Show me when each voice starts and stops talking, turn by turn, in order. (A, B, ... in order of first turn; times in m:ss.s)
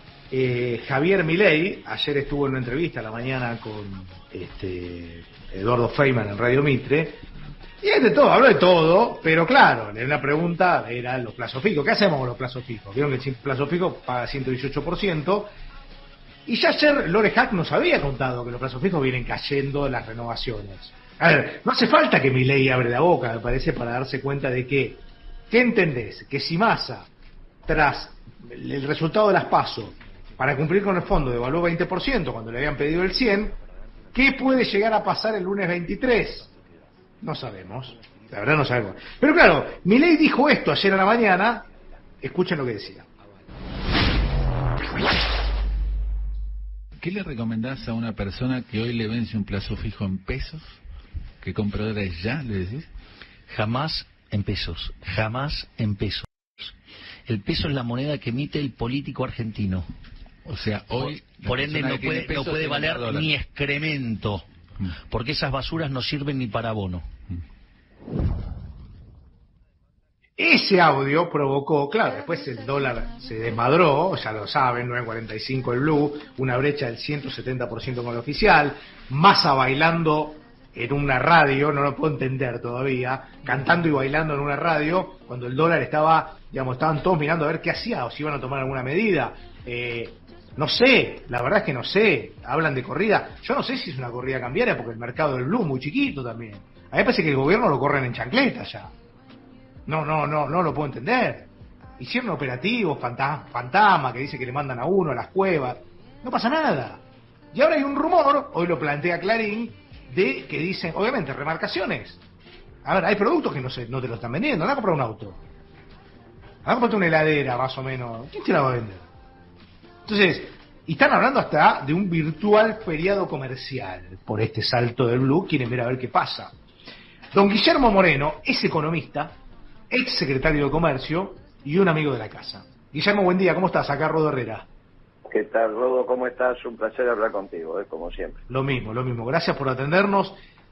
0:00.3-0:07.2 A
0:07.8-0:15.5 A
0:16.4-0:27.1 A
0:27.7-0:33.6 A
0:34.1-0:36.5 A
0:37.2-0:41.6 A
0:42.2-0:43.0 A
0:47.0-0:50.7 B
0:51.4-0:52.9 B
0:53.5-0:56.7 C
0:57.3-0:59.8 C
1:00.4-1:03.3 B
1:01.0-1:04.4 C
1:05.1-1:07.0 C
1:10.4-1:38.9 A
1:39.8-1:47.0 A
1:47.5-1:52.2 A
1:52.8-1:55.4 A
1:56.6-1:59.0 A
2:00.0-2:06.5 A
2:07.3-2:09.4 A
2:09.9-2:14.6 A
2:15.3-2:18.4 D
2:18.5-2:20.4 A